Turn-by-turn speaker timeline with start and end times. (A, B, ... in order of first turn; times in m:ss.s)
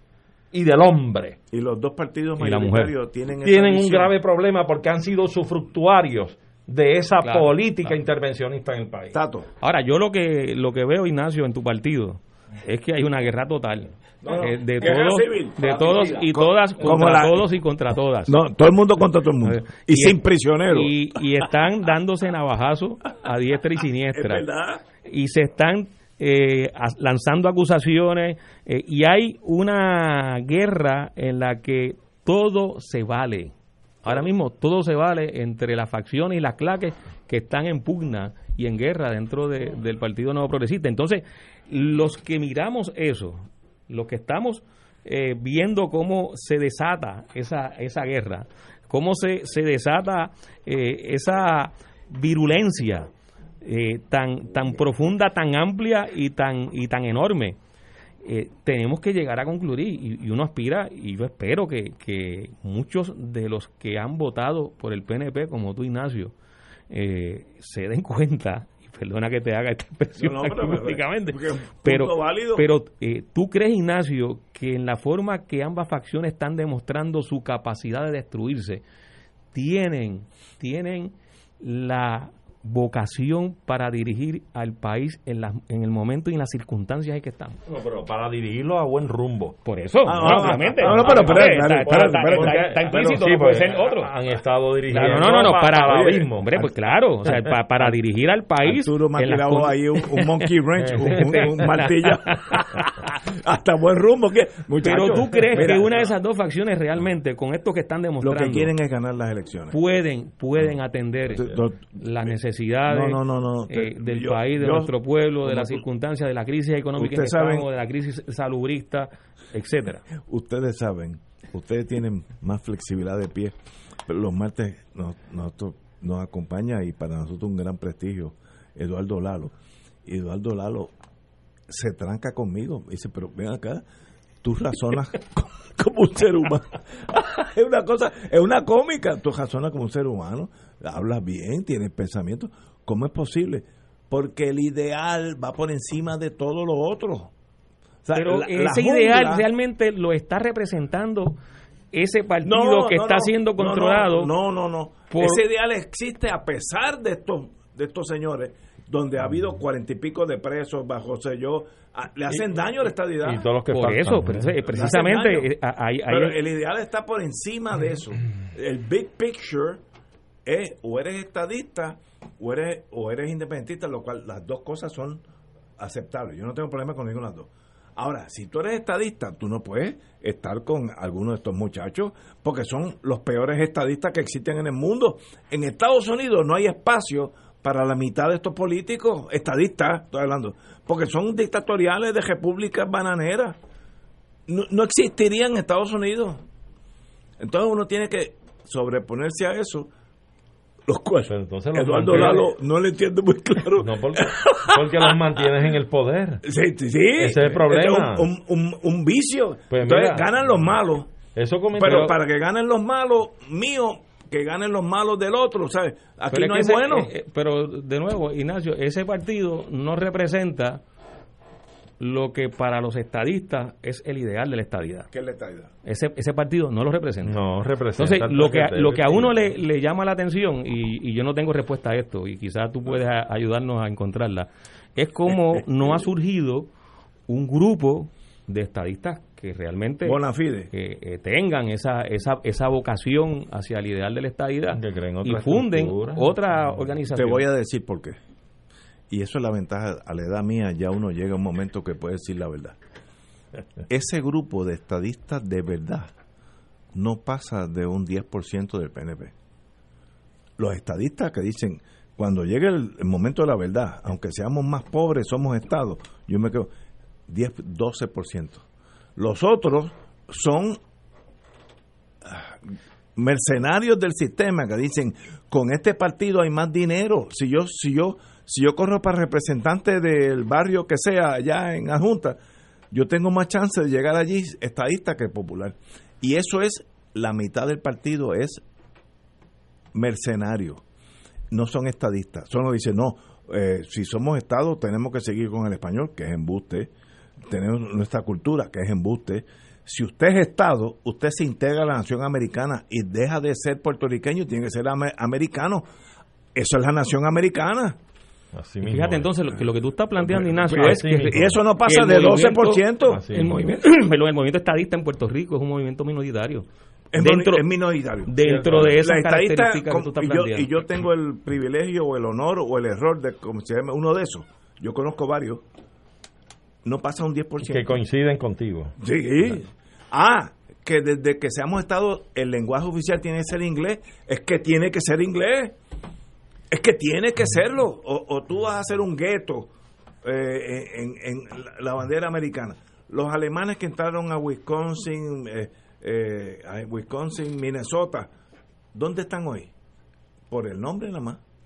0:00.5-0:01.4 A
0:01.5-0:04.1 B
0:02.4-0:02.9 C
0:03.4-0:09.2 A
0:07.2-0:08.0 C
0:09.1-0:09.5 B
0:09.6-0:18.3 C
0:14.2-0:17.5 B
0:18.2-0:20.9 B
0:19.4-0:24.4 C
0:24.1-0:24.8 B
0:25.0-0:33.5 C
0:34.0-0:53.1 C
0:53.6-0:57.6 C
0:58.2-1:06.3 C
1:06.9-1:18.8 C
1:10.1-1:12.7 B
1:19.5-1:27.6 C
1:27.7-1:29.6 A
1:29.6-1:34.1 C
1:30.0-1:33.3 B
1:30.2-1:36.6 A
1:34.9-1:40.5 C
1:35.7-1:36.7 B
1:38.6-1:45.9 B
1:40.9-1:41.3 A
1:41.1-1:42.9 C
1:44.8-1:48.7 C
1:45.0-1:45.8 A
1:48.2-1:49.8 B
1:49.7-2:00.0 C
1:51.2-1:52.3 B
1:52.8-1:55.8 B
1:57.0-1:57.7 B
2:00.2-2:03.5 B
2:04.0-2:09.5 B
2:10.0-2:10.9 B
2:11.7-2:13.8 B
2:14.4-2:27.3 B
2:28.0-2:29.5 B
2:28.1-2:31.4 C
2:31.9-2:34.3 C
2:32.4-2:43.4 B
2:35.1-2:35.4 C
2:43.2-2:44.4 A
2:43.7-2:46.4 C
2:44.7-2:45.5 B
2:46.1-2:49.8 B
2:50.4-2:55.2 B
2:55.8-3:13.6 B
3:14.5-3:16.4 B
3:17.4-3:19.9 B
3:20.8-3:25.2 B
3:21.3-3:22.5 A
3:23.8-3:26.4 A
3:26.4-3:31.1 B
3:27.2-3:28.3 A
3:29.7-3:30.3 A
3:31.3-3:32.2 A
3:31.8-3:37.1 B
3:36.3-3:40.8 C
3:42.0-3:45.1 C
3:45.1-3:45.7 B
3:45.8-3:47.4 C
3:47.2-3:49.3 A
3:48.0-3:56.7 C
3:55.3-3:56.0 B
3:57.3-4:00.2 C
4:00.0-4:00.7 B
4:00.7-4:07.4 C
4:04.8-4:06.3 A
4:07.1-4:08.2 B
4:09.1-4:12.8 B
4:13.9-4:16.1 B
4:16.9-4:19.3 B
4:20.6-4:26.7 B
4:27.3-4:28.6 B
4:29.2-4:30.8 B
4:32.2-4:32.6 B
4:33.2-4:42.4 B
4:42.9-4:48.6 B
4:49.9-4:50.8 B
4:51.5-4:56.9 B
4:57.5-5:05.8 B
5:06.5-5:08.0 B
5:08.5-5:09.2 A
5:08.8-5:17.6 C
5:10.6-5:11.6 A
5:11.3-5:13.3 B
5:13.1-5:13.5 A
5:17.1-5:25.6 B
5:18.2-5:20.8 C
5:18.4-5:18.9 A
5:26.8-5:27.9 B
5:27.7-5:28.9 A
5:29.0-5:35.8 B
5:36.7-5:39.7 B
5:40.2-5:48.3 B
5:48.9-5:49.7 B
5:50.5-5:51.4 B